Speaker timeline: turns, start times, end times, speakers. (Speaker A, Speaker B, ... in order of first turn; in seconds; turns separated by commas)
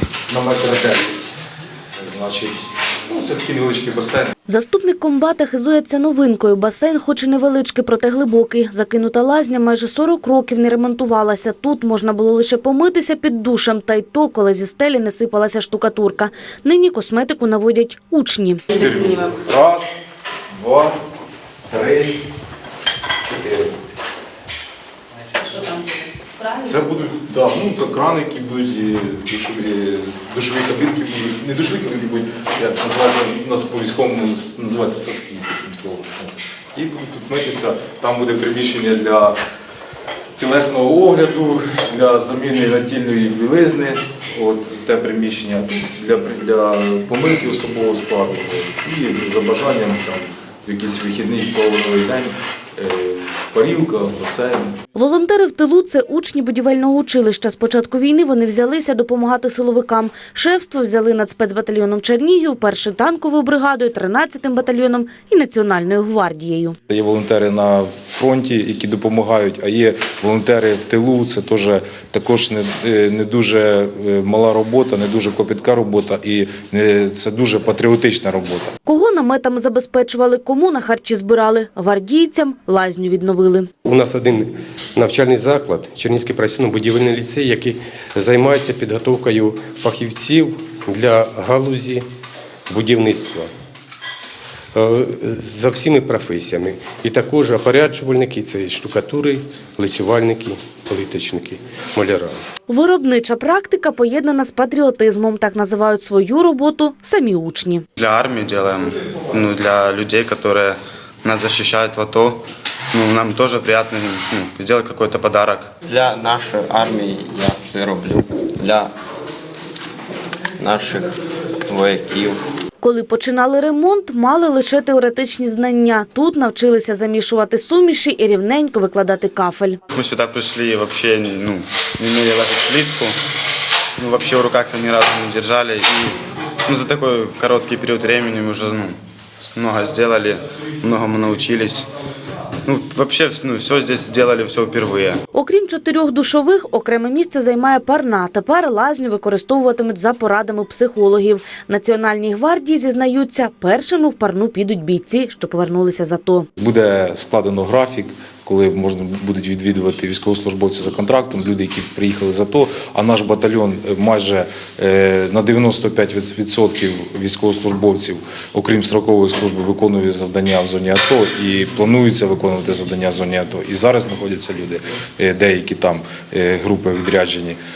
Speaker A: 0.3-1.3, Speaker A: 1.9-4.3, Speaker B: 4.5-18.9, Speaker A: 18.7-20.0, Speaker A: 20.5-21.0, Speaker A: 21.7-22.1, Speaker A: 23.3-23.7, Speaker B: 25.4-25.8, Speaker A: 26.6-39.4, Speaker A: 40.4-54.7, Speaker B: 54.9-66.8, Speaker A: 66.9-78.7, Speaker B: 78.8-83.7, Speaker C: 83.8-92.1, Speaker C: 92.7-93.5, Speaker C: 94.7-102.4, Speaker B: 102.7-107.8, Speaker D: 108.0-115.7, Speaker E: 115.8-118.9, Speaker E: 120.6-122.4, Speaker B: 122.8-129.8, Speaker D: 129.9-133.2, Speaker D: 134.0-139.0, Speaker D: 139.6-141.9, Speaker D: 142.6-145.2, Speaker B: 145.3-156.5, Speaker A: 156.6-177.6